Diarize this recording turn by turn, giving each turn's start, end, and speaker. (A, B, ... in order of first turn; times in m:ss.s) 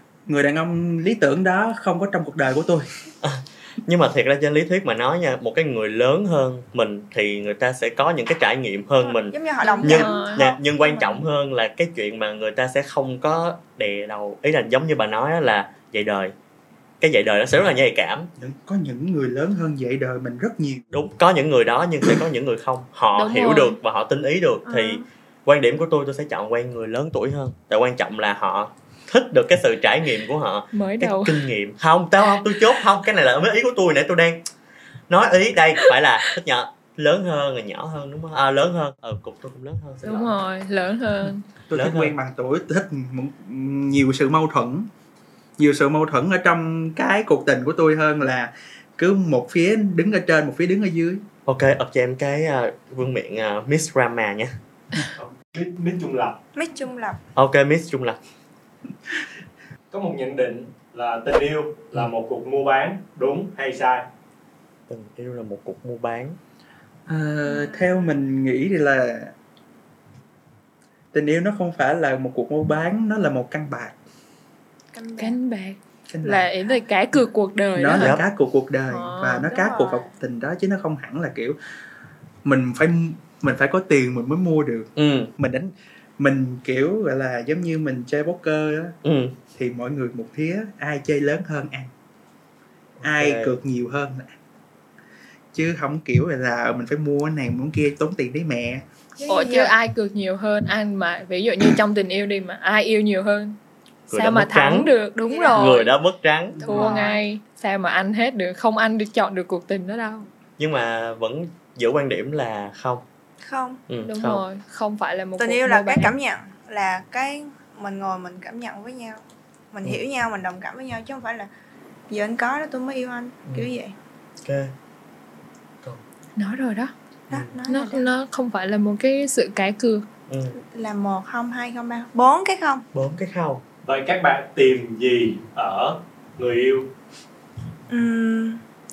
0:00.3-0:02.9 A
0:03.2-0:16.3 B
0:09.0-0:11.2 C
0:09.6-0:10.5 D
0:17.0-0:18.3 B
0:18.4-0:20.9 A
0:20.9-0:34.4 B
0:23.2-0:23.8 D
0:24.7-0:25.0 C
0:30.7-0:31.4 D
0:35.1-0:40.4 B
0:40.0-0:41.4 D
0:41.7-0:44.9 A
0:41.7-0:42.1 B
0:45.6-0:51.2 A
0:51.5-0:54.5 B
0:55.2-0:56.4 E
0:56.5-0:57.2 C
0:57.4-0:58.2 B
0:59.9-1:04.0 E
1:04.9-1:06.4 B
1:07.1-1:09.3 A
1:07.5-1:08.1 C
1:11.1-1:14.0 A
1:14.9-1:15.4 C
1:15.2-1:18.2 D
1:16.1-1:16.5 A
1:17.8-1:21.6 A
1:18.0-1:18.2 B
1:18.9-1:19.5 D
1:19.4-1:20.2 C
1:22.4-1:29.0 A
1:25.0-1:25.3 B
1:29.0-1:29.4 B
1:29.5-1:31.9 A
1:33.0-1:33.6 B
1:33.0-1:34.4 A
1:35.5-1:38.8 A
1:39.2-1:39.7 C
1:39.3-1:43.6 D
1:44.1-1:44.9 B
1:44.1-1:45.9 D
1:45.3-1:45.8 C
1:45.5-1:46.9 B
1:46.6-1:47.0 A
1:46.6-1:50.3 D
1:46.6-1:47.2 C
1:50.6-1:53.0 B
1:53.4-1:53.8 C
1:53.9-1:54.4 B
1:54.0-1:56.2 D
1:55.4-2:01.5 C
2:02.1-2:04.0 C
2:04.4-2:04.7 B
2:06.4-2:06.9 D
2:07.3-2:08.0 C
2:07.7-2:10.1 D
2:10.3-2:10.6 B
2:10.6-2:12.8 C
2:12.9-2:13.6 B
2:13.8-2:16.9 E
2:17.9-2:18.6 C